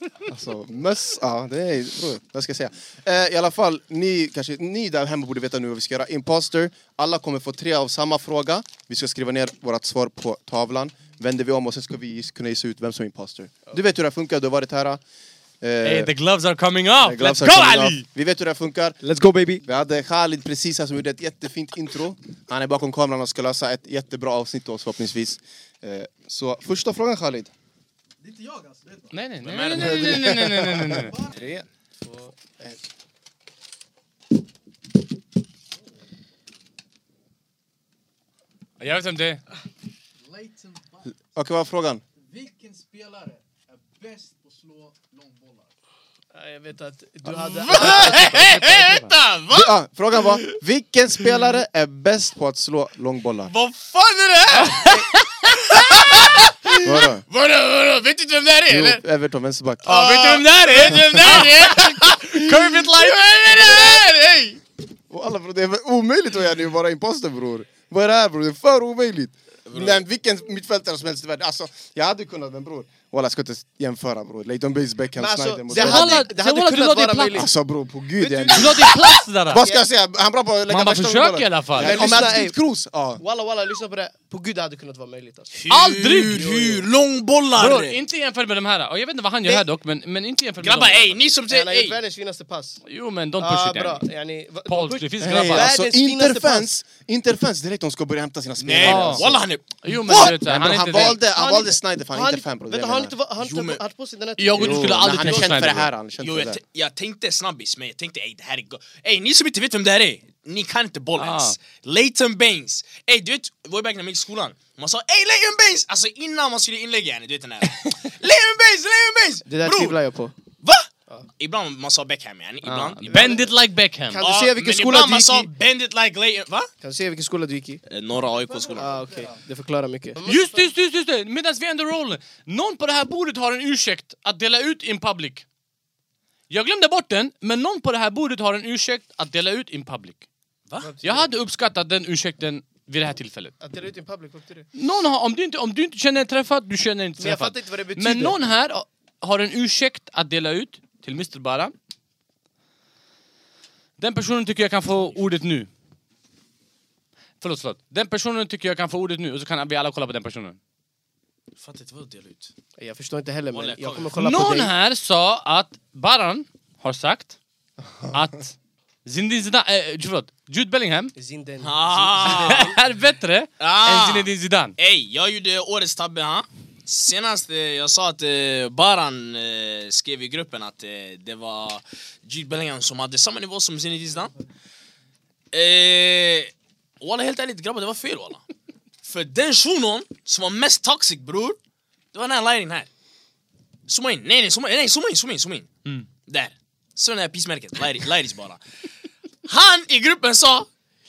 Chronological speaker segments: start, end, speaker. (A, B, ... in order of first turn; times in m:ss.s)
0:00.3-0:15.0 A
0:15.6-0:16.1 A
0:15.8-0:18.0 B
0:17.0-0:19.0 A
0:19.0-0:19.6 C
0:19.6-0:27.5 A
0:28.2-0:29.2 D
0:29.1-0:31.2 B
0:29.4-0:30.2 E
0:29.8-0:31.6 A
0:30.9-0:31.4 D
0:32.0-0:32.5 C
0:38.8-0:39.4 B
0:40.2-0:41.1 D
0:41.3-0:42.0 A
0:42.3-0:45.7 D
0:46.3-0:48.8 C
0:47.4-0:50.6 E
0:47.7-0:49.1 B
0:49.5-0:53.5 A
0:53.5-0:59.0 E
0:54.5-0:55.2 B
0:56.8-0:57.2 A
0:58.7-1:00.0 A
0:59.8-1:04.6 E
0:59.9-1:04.0 B
1:05.1-1:16.3 A
1:09.7-1:10.0 E
1:15.2-1:17.5 C
1:15.7-1:17.4 B
1:17.3-1:18.9 A
1:18.2-1:19.8 C
1:18.5-1:19.6 B
1:19.5-1:23.2 A
1:20.7-1:22.2 B
1:21.8-1:22.6 C
1:23.2-1:25.5 C
1:25.5-1:28.0 E
1:25.7-1:26.5 B
1:26.3-1:26.8 C
1:27.6-1:31.2 B
1:30.6-1:32.0 E
1:31.5-1:32.8 C
1:32.9-1:34.1 B
1:33.4-1:36.7 C
1:34.7-1:35.7 B
1:35.2-1:39.4 A
1:38.6-1:40.4 E
1:38.8-1:39.3 B
1:39.8-1:41.2 B
1:40.1-1:43.1 A
1:40.9-1:45.5 C
1:43.4-1:43.8 E
1:44.4-1:45.9 B
1:44.6-1:46.6 A
1:46.2-2:00.0 E
1:51.2-1:51.6 B
1:59.5-2:00.3 C
2:00.6-2:03.4 E
2:02.6-2:04.2 B
2:03.1-2:03.5 C
2:04.1-2:05.5 C
2:04.2-2:06.7 E
2:06.8-2:07.8 C
2:07.9-2:09.0 E
2:08.4-2:09.4 D
2:08.8-2:10.7 C
2:10.2-2:15.4 B
2:16.5-2:20.2 B
2:20.7-2:20.9 E
2:20.8-2:21.3 C
2:21.0-2:23.5 B
2:23.6-2:24.7 C
2:24.8-2:31.7 B
2:27.2-2:28.4 C
2:34.0-2:35.7 B
2:37.4-2:40.6 B
2:41.6-2:42.5 E
2:42.8-2:44.7 C
2:43.5-2:44.2 E
2:44.2-2:47.4 B
2:48.1-2:48.5 B
2:49.0-2:51.1 B
2:51.2-2:52.8 C
2:51.6-2:52.8 E
2:52.2-2:54.7 B
2:53.6-3:04.3 E
3:05.5-3:08.4 E
3:09.0-3:11.6 E
3:12.1-3:12.9 E
3:13.9-3:15.7 E
3:16.2-3:18.6 E
3:19.4-3:20.7 E